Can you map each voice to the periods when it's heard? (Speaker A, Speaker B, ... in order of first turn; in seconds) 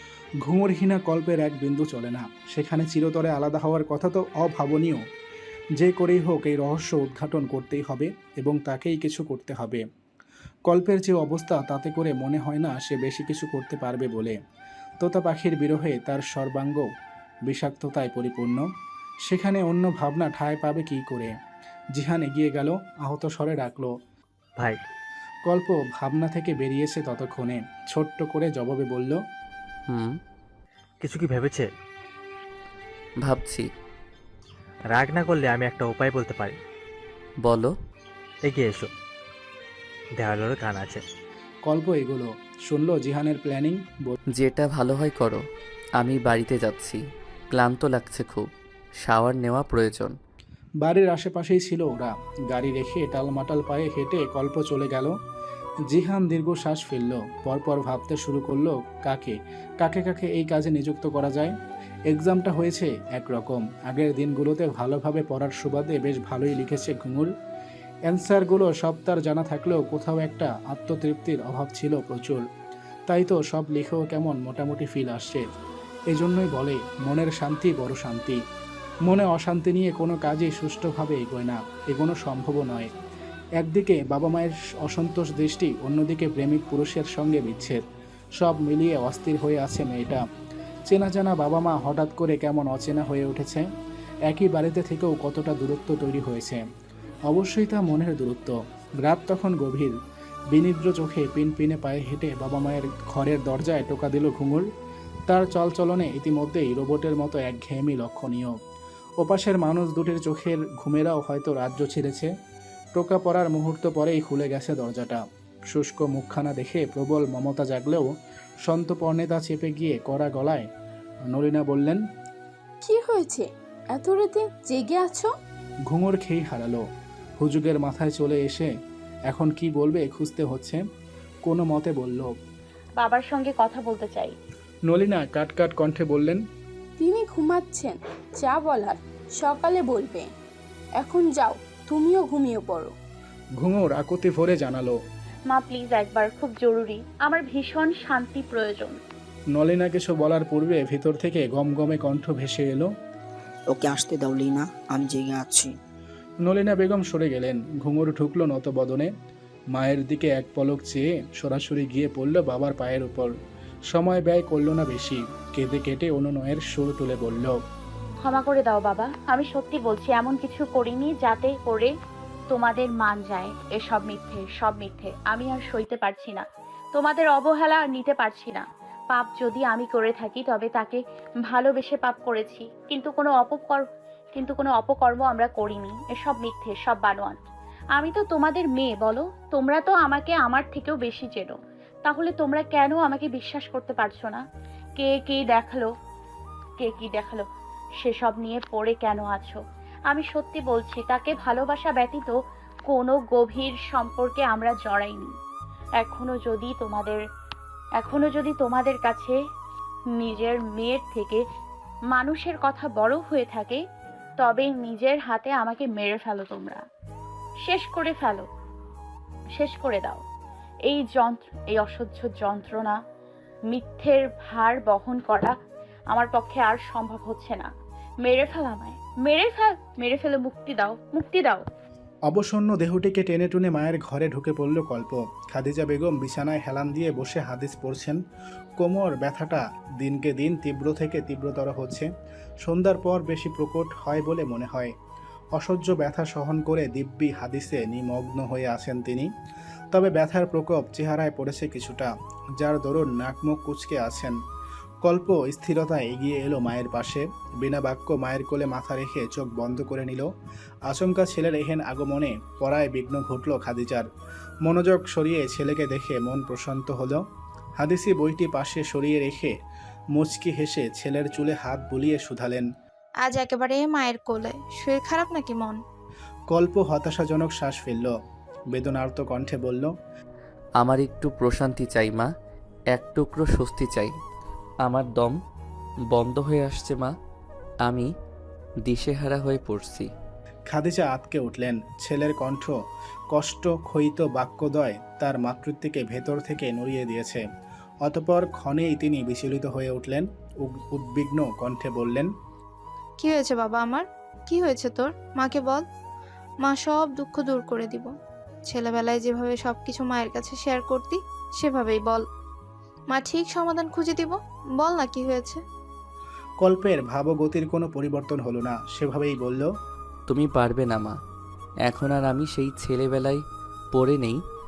Speaker A: 0.4-5.0, 5.8-9.8, 10.7-14.4, 15.0-16.9, 17.4-18.6, 19.2-21.3, 21.9-23.9, 25.4-29.2, 41.6-44.2, 50.8-55.1, 55.9-61.5, 62.1-67.3, 68.1-72.4, 73.1-75.4, 76.1-78.4, 79.0-82.9, 83.6-87.8, 88.4-90.2, 90.9-93.6, 94.3-96.6, 97.3-99.9, 100.5-104.7, 105.3-108.5, 109.2-112.3, 112.9-118.1, 118.6-120.7, 121.3-122.0, 125.9-126.8, 127.4-128.7, 129.3-130.8, 131.4-132.3, 134.9-136.4, 143.6-145.0, 149.5-152.9, 156.4-159.1, 159.7-163.3, 163.9-167.5, 232.3-238.2, 238.8-242.1, 242.6-244.9, 245.6-249.3, 249.9-254.3, 255.0-260.3, 260.9-264.1, 264.6-267.2, 267.8-269.5, 270.1-272.7, 276.5-278.1, 278.7-279.9, 290.7-292.7, 293.3-297.4, 298.0-302.3, 316.6-319.7
Speaker B: 29.9-30.2, 33.2-33.7, 37.4-37.7, 44.4-45.4, 46.0-47.0, 47.5-48.5, 49.0-50.1, 280.8-282.3, 282.9-284.1, 284.8-285.4, 286.1-287.1, 287.8-288.1, 288.8-290.1, 320.3-321.2, 321.9-323.4, 323.9-324.4
Speaker C: 31.0-31.6, 34.9-36.5, 38.4-38.9, 40.2-41.0
Speaker D: 122.8-125.3, 137.0-140.2, 141.0-142.9
Speaker E: 133.0-134.3, 145.5-149.0, 168.2-171.9, 172.5-187.4, 187.9-194.4, 195.0-195.9, 196.8-197.5, 198.0-202.3, 202.9-205.3, 206.0-207.2, 208.0-209.3, 210.2-211.4, 212.1-213.8, 214.4-216.8, 217.6-218.5, 219.6-220.2, 220.9-223.0, 223.7-225.5, 226.1-227.7, 228.2-231.6
Speaker F: 153.7-155.7
Speaker G: 273.2-275.8, 303.2-305.8, 306.6-308.1, 308.7-312.2, 313.1-315.6